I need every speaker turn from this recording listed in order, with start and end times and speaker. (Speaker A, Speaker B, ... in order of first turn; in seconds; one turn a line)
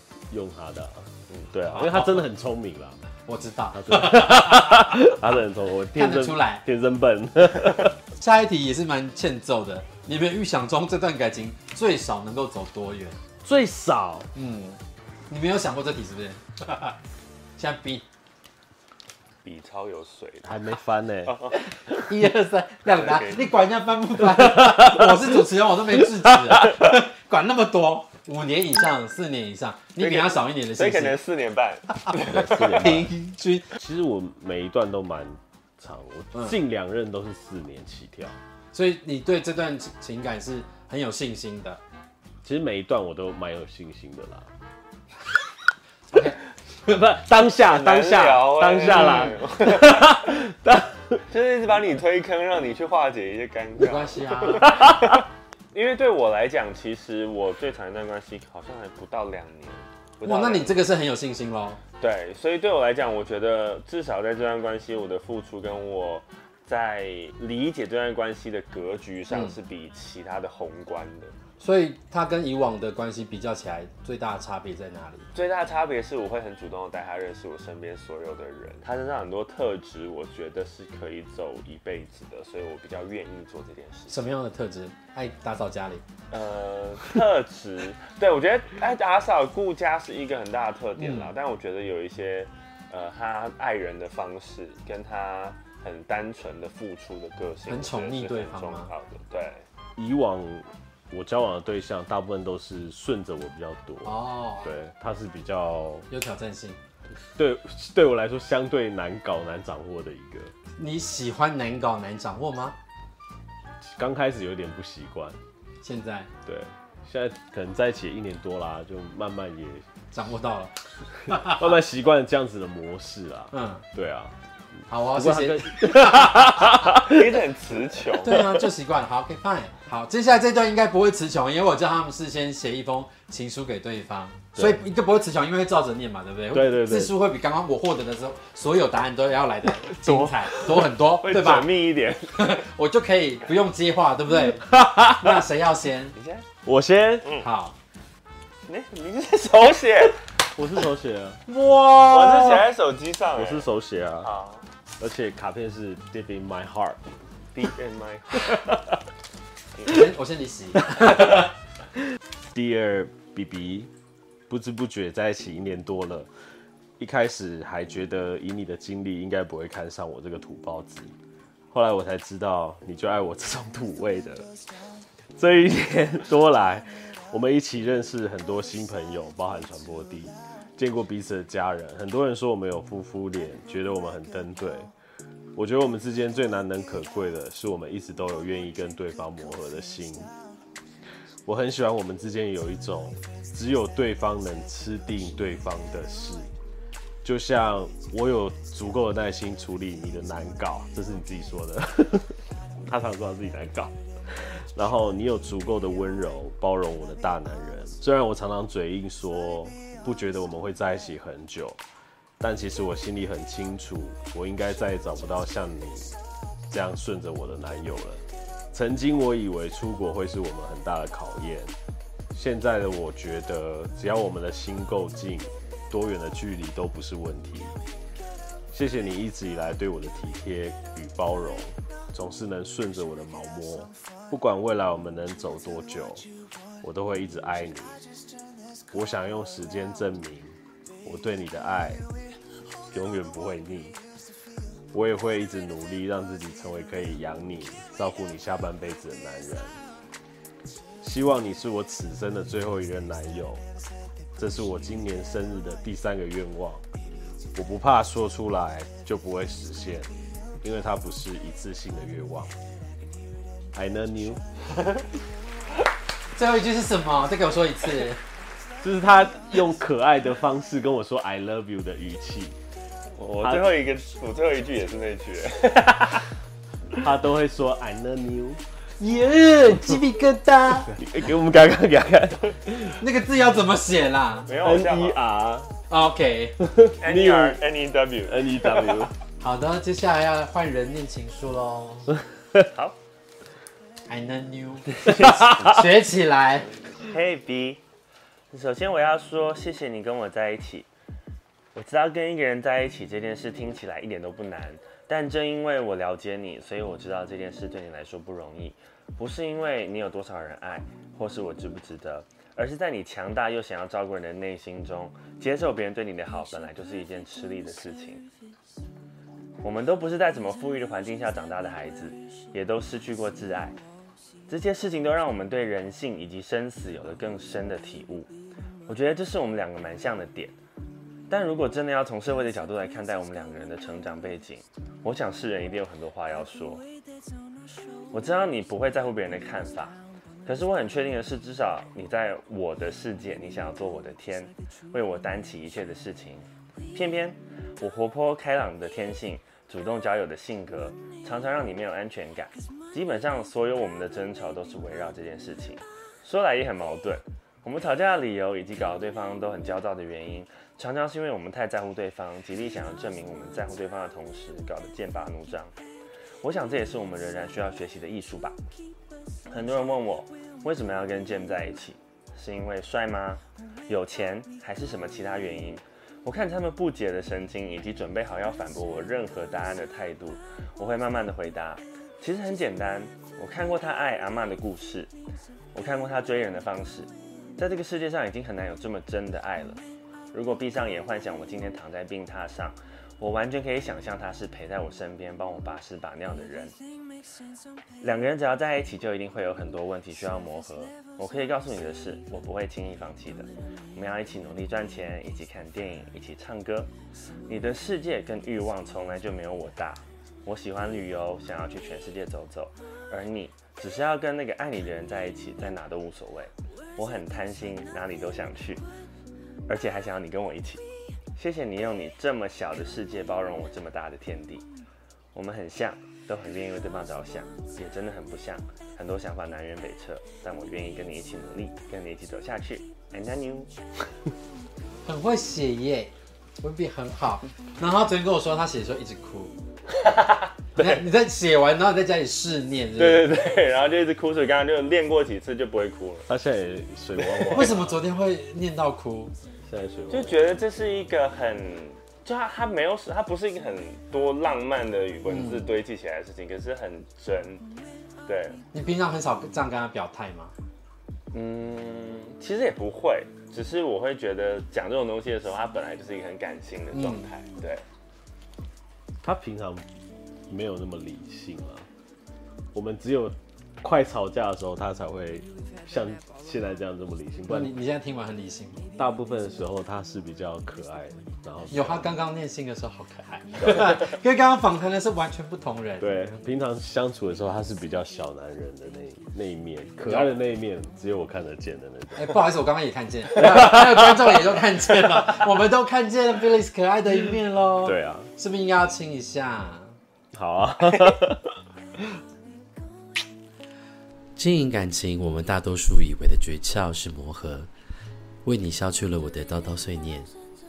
Speaker A: 0.3-3.0
Speaker B: 1.7-2.2
Speaker B: 3.2-5.2
Speaker A: 3.7-8.0
Speaker B: 5.9-6.6
Speaker B: 8.2-13.2
Speaker A: 13.4-14.3
Speaker B: 14.3-14.8
Speaker B: 15.3-17.0
Speaker B: 17.6-18.0
Speaker C: 19.4-20.5
Speaker A: 20.4-21.4
Speaker C: 21.2-21.6
Speaker B: 22.0-31.2
Speaker C: 22.9-23.4
Speaker A: 24.4-24.9
Speaker C: 30.0-32.9
Speaker B: 32.0-33.7
Speaker A: 32.2-33.1
Speaker A: 33.8-38.4
Speaker B: 38.7-41.8
Speaker A: 42.4-44.5
Speaker B: 46.1-46.4
Speaker A: 46.9-51.2
Speaker C: 47.6-50.2
Speaker B: 48.9-49.3
Speaker C: 51.3-60.8
Speaker B: 53.8-54.8
Speaker A: 54.8-55.0
Speaker B: 60.2-61.8
Speaker C: 62.0-71.3
Speaker B: 69.3-69.5
Speaker B: 71.6-75.2
Speaker C: 75.3-84.2
Speaker B: 84.1-86.0
Speaker C: 86.3-99.6
Speaker B: 91.0-91.3
Speaker B: 97.7-98.9
Speaker A: 100.0-106.1
Speaker B: 104.0-104.7
Speaker B: 106.1-106.8
Speaker A: 107.3-110.5
Speaker B: 110.8-112.8
Speaker A: 113.8-115.4
Speaker B: 115.8-116.3
Speaker A: 116.4-119.8
Speaker B: 120.1-121.7
Speaker A: 121.3-124.3
Speaker B: 123.5-123.8
Speaker B: 124.9-126.9
Speaker A: 125.1-127.3
Speaker C: 126.9-128.4
Speaker B: 128.2-141.8
Speaker A: 136.5-137.1
Speaker A: 140.0-140.3
Speaker C: 141.1-142.4
Speaker B: 142.3-146.1
Speaker A: 144.6-145.4
Speaker C: 146.2-146.4
Speaker A: 146.6-147.3
Speaker B: 147.4-147.7
Speaker C: 148.7-150.2
Speaker A: 150.6-151.4
Speaker B: 151.5-152.6
Speaker C: 152.0-153.7
Speaker A: 153.3-154.3
Speaker C: 154.2-154.6
Speaker A: 155.0-157.0
Speaker C: 157.5-158.6
Speaker B: 159.8-161.5
Speaker A: 162.5-163.9
Speaker A: 164.5-166.3
Speaker A: 167.0-171.1
Speaker A: 171.7-174.5
Speaker A: 175.3-184.9
Speaker A: 185.5-190.3
Speaker A: 191.4-196.5
Speaker A: 197.2-211.8
Speaker A: 212.4-216.1
Speaker A: 216.7-221.7
Speaker A: 222.3-227.8
Speaker A: 228.7-236.2
Speaker A: 236.8-238.0
Speaker A: 238.9-242.0
Speaker A: 242.9-243.9
Speaker A: 244.9-249.8
Speaker A: 251.0-253.6
Speaker A: 254.4-256.8
Speaker A: 257.5-260.1
Speaker A: 260.6-262.5
Speaker A: 263.7-264.4
Speaker B: 266.3-268.2
Speaker A: 268.8-272.6
Speaker C: 273.2-276.2
Speaker A: 273.4-273.7
Speaker A: 276.9-278.6
Speaker B: 279.0-280.9
Speaker A: 280.9-283.0
Speaker B: 283.0-284.5
Speaker C: 284.5-285.2
Speaker A: 284.6-285.7
Speaker B: 285.9-286.6
Speaker A: 286.6-287.6
Speaker C: 287.0-288.4
Speaker A: 288.2-289.1
Speaker B: 289.4-292.1
Speaker B: 294.1-296.7
Speaker C: 296.8-297.8
Speaker C: 298.5-300.9
Speaker C: 301.7-318.3
Speaker C: 319.6-323.8
Speaker C: 324.5-328.3
Speaker C: 328.9-330.6
Speaker C: 331.3-336.8
Speaker C: 338.1-365.7
Speaker C: 366.4-368.6
Speaker C: 369.5-385.1
Speaker C: 385.7-389.8
Speaker C: 390.3-396.7
Speaker C: 398.0-406.9
Speaker C: 407.5-418.8
Speaker C: 419.7-420.8
Speaker C: 421.4-424.6
Speaker C: 425.3-433.7
Speaker B: 435.0-439.5
Speaker C: 440.0-440.9
Speaker B: 440.8-443.3
Speaker C: 443.0-446.2
Speaker A: 446.3-447.8
Speaker C: 447.2-447.7
Speaker B: 447.5-449.3
Speaker A: 449.6-450.4
Speaker C: 450.1-457.7
Speaker B: 455.3-455.6
Speaker C: 458.2-458.6
Speaker B: 458.7-460.5
Speaker C: 461.3-467.8
Speaker B: 466.9-467.3
Speaker A: 469.2-469.8
Speaker A: 470.5-471.9
Speaker A: 472.7-477.8
Speaker B: 477.5-478.8
Speaker A: 478.9-482.1
Speaker B: 481.7-486.1
Speaker A: 483.6-484.0
Speaker A: 486.0-492.3
Speaker B: 490.0-490.3
Speaker B: 492.1-500.0
Speaker A: 493.4-494.0
Speaker A: 497.8-498.3
Speaker A: 500.3-502.1
Speaker D: 504.4-507.7
Speaker D: 508.4-510.3